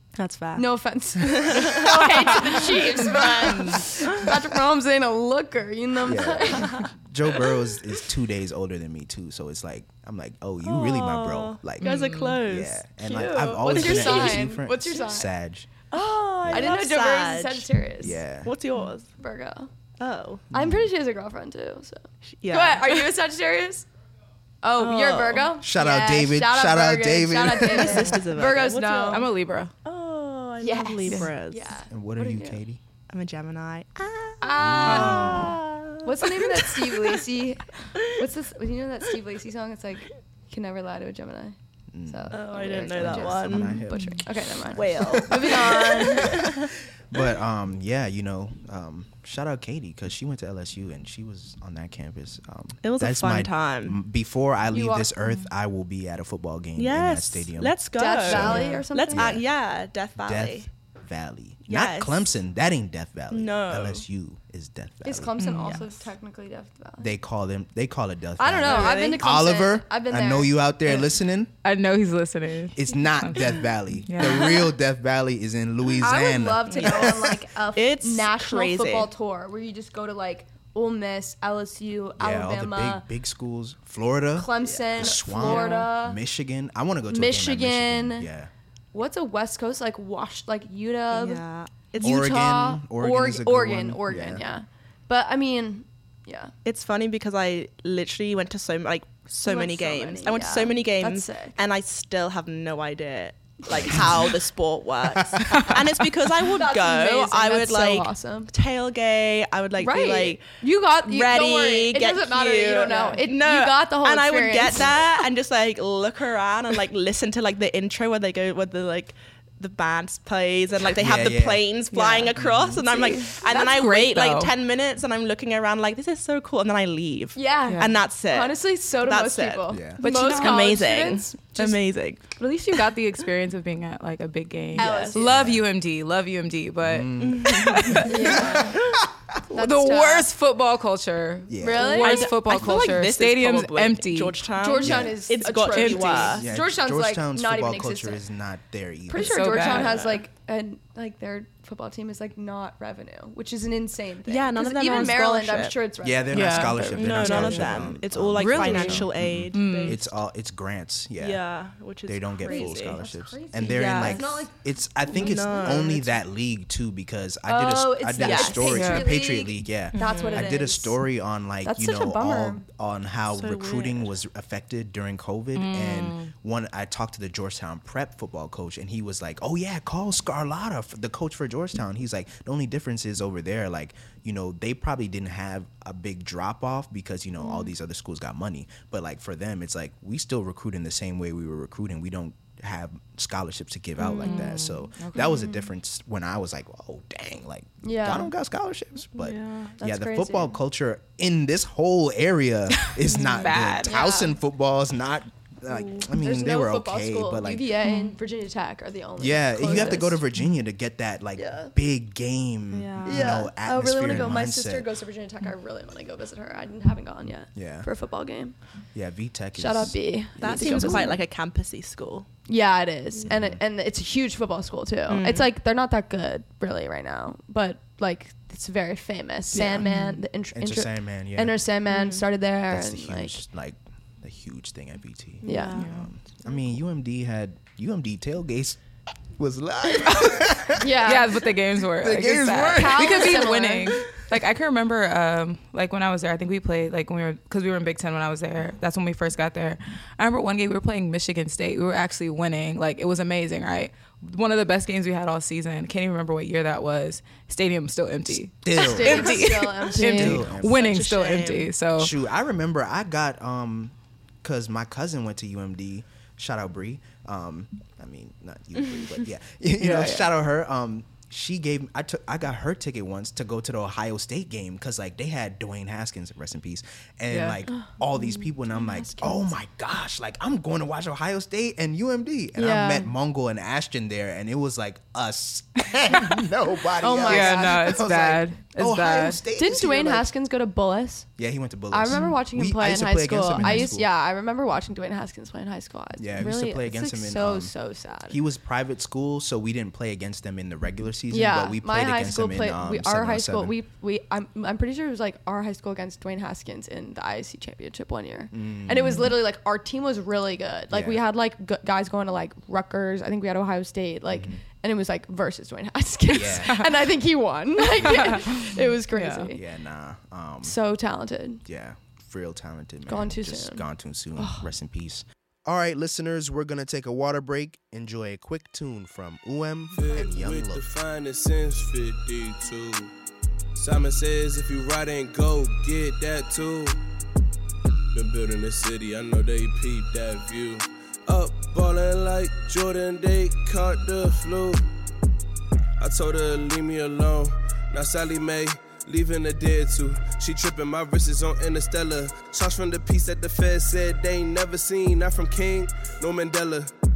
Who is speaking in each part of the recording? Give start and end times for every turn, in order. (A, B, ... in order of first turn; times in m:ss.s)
0:00.1-0:03.9 A
0:00.5-0:06.9 B
0:02.2-0:02.9 C
0:03.5-0:03.8 C
0:06.0-0:15.7 D
0:06.6-0:06.8 A
0:10.6-0:14.5 A
0:11.8-0:12.4 C
0:13.0-0:15.3 B
0:15.9-0:17.7 A
0:16.0-0:18.2 B
0:18.0-0:18.5 D
0:18.4-0:19.2 A
0:19.2-0:19.7 B
0:20.0-0:20.4 A
0:20.5-0:20.9 D
0:20.5-0:23.9 B
0:22.3-0:23.1 A
0:24.6-0:29.3 B
0:24.8-0:25.5 A
0:25.6-0:28.2 D
0:27.6-0:29.3 A
0:29.1-0:29.7 C
0:29.8-0:31.8 A
0:30.6-0:32.6 B
0:31.9-0:32.8 D
0:33.1-0:37.2 A
0:34.4-0:46.4 B
0:34.6-0:35.6 D
0:41.9-0:59.4 D
0:42.3-0:43.9 A
0:43.9-0:44.2 C
0:44.4-0:46.7 A
0:52.8-0:54.0 A
0:54.7-0:55.1 B
0:56.8-1:00.7 A
0:57.9-0:59.4 B
1:00.2-1:05.3 D
1:01.7-1:02.3 A
1:03.3-1:04.0 A
1:05.0-1:07.1 B
1:05.4-1:05.8 C
1:05.6-1:06.0 A
1:07.0-1:11.5 D
1:08.4-1:11.1 B
1:08.7-1:09.2 A
1:11.6-1:14.5 C
1:12.7-1:17.2 D
1:14.2-1:14.7 A
1:16.0-1:23.0 B
1:16.7-1:19.1 A
1:22.2-1:28.5 D
1:24.3-1:26.2 B
1:24.6-1:25.9 A
1:27.1-1:28.3 B
1:28.9-1:31.4 B
1:31.1-1:32.2 A
1:32.0-1:34.4 D
1:32.0-1:36.5 B
1:36.6-2:12.4 A
1:39.4-1:41.6 B
1:45.2-1:45.8 D
1:46.6-1:48.5 B
1:49.8-1:55.0 B
1:52.9-1:53.2 C
2:01.0-2:01.6 D
2:01.9-2:04.5 C
2:02.4-2:02.8 D
2:03.5-2:03.7 B
2:07.4-2:11.8 B
2:07.6-2:07.9 C
2:09.7-2:10.0 D
2:10.0-2:10.7 C
2:12.4-2:18.1 C
2:14.8-2:15.2 A
2:14.8-2:15.4 B
2:15.2-2:15.6 D
2:16.8-2:19.2 D
2:17.2-2:19.0 A
2:18.0-2:18.8 B
2:19.5-2:20.3 B
2:19.5-2:24.4 C
2:21.5-2:22.0 D
2:21.6-2:22.4 B
2:21.8-2:26.5 A
2:24.6-2:28.2 B
2:24.8-2:25.2 D
2:25.7-2:26.3 C
2:26.3-2:29.6 D
2:29.1-2:37.9 B
2:29.2-2:30.0 C
2:29.6-2:30.2 A
2:34.2-2:35.8 A
2:36.0-2:41.5 D
2:36.3-2:40.0 C
2:37.0-2:40.1 A
2:38.7-2:39.0 B
2:41.2-2:43.0 A
2:42.0-3:27.7 D
2:42.4-2:44.5 B
2:43.6-2:44.5 A
2:45.1-2:45.9 B
2:45.1-2:46.2 A
2:47.4-2:51.0 B
2:48.2-2:49.1 A
2:48.7-2:49.0 C
2:49.9-2:50.6 A
2:51.6-2:52.6 B
2:53.3-2:54.1 A
2:55.5-2:56.3 C
3:14.0-3:14.4 A
3:14.2-3:15.3 C
3:15.1-3:15.7 B
3:17.8-3:18.3 B
3:19.1-3:19.8 A
3:19.8-3:20.6 B
3:22.8-3:24.0 C
3:23.1-3:23.5 A
3:23.8-3:24.4 B
3:25.7-3:26.1 A
3:26.2-3:30.2 B
3:27.8-3:28.1 C
3:29.2-3:34.9 D
3:31.4-3:31.7 B
3:32.7-3:33.5 A
3:33.0-3:38.7 B
3:37.5-3:37.9 D
3:38.9-3:41.1 D
3:39.5-3:41.2 B
3:40.4-3:42.3 A
3:42.5-3:53.4 B
3:43.2-3:43.6 D
3:45.1-3:45.5 A
3:49.5-3:49.8 D
3:49.5-3:49.9 A
3:49.8-3:50.2 C
3:50.5-3:51.6 D
3:51.9-3:52.2 A
3:52.7-3:58.8 D
3:55.4-3:56.6 A
3:55.4-3:55.8 B
3:55.8-3:56.1 C
3:59.3-4:01.1 D
4:00.8-4:01.5 B
4:01.0-4:22.2 C
4:02.0-4:03.5 D
4:02.7-4:03.9 B
4:18.3-4:20.8 D
4:18.7-4:20.5 B
4:20.6-4:21.7 A
4:22.0-4:50.3 D
4:29.8-4:30.3 C
4:37.3-4:37.6 C
4:37.7-4:39.6 B
4:42.6-4:43.1 B
4:46.9-4:48.0 B
4:47.2-4:49.4 C
4:49.6-4:51.3 B
4:51.4-4:54.1 D
4:51.9-4:58.4 B
4:52.1-4:52.4 C
4:53.6-4:53.9 C
4:56.2-5:03.7 D
5:01.3-5:19.6 B
5:08.5-5:09.3 D
5:10.9-5:11.2 D
5:14.3-5:14.6 D
5:16.3-5:16.8 D
5:16.4-5:16.8 C
5:18.0-5:18.4 D
5:18.0-5:19.5 C
5:19.5-5:20.8 D
5:20.6-5:21.6 B
5:21.6-5:30.8 D
5:23.1-5:24.7 B
5:29.9-5:33.1 E
5:33.7-5:37.0 E
5:38.1-5:44.9 E
5:46.0-5:56.9 E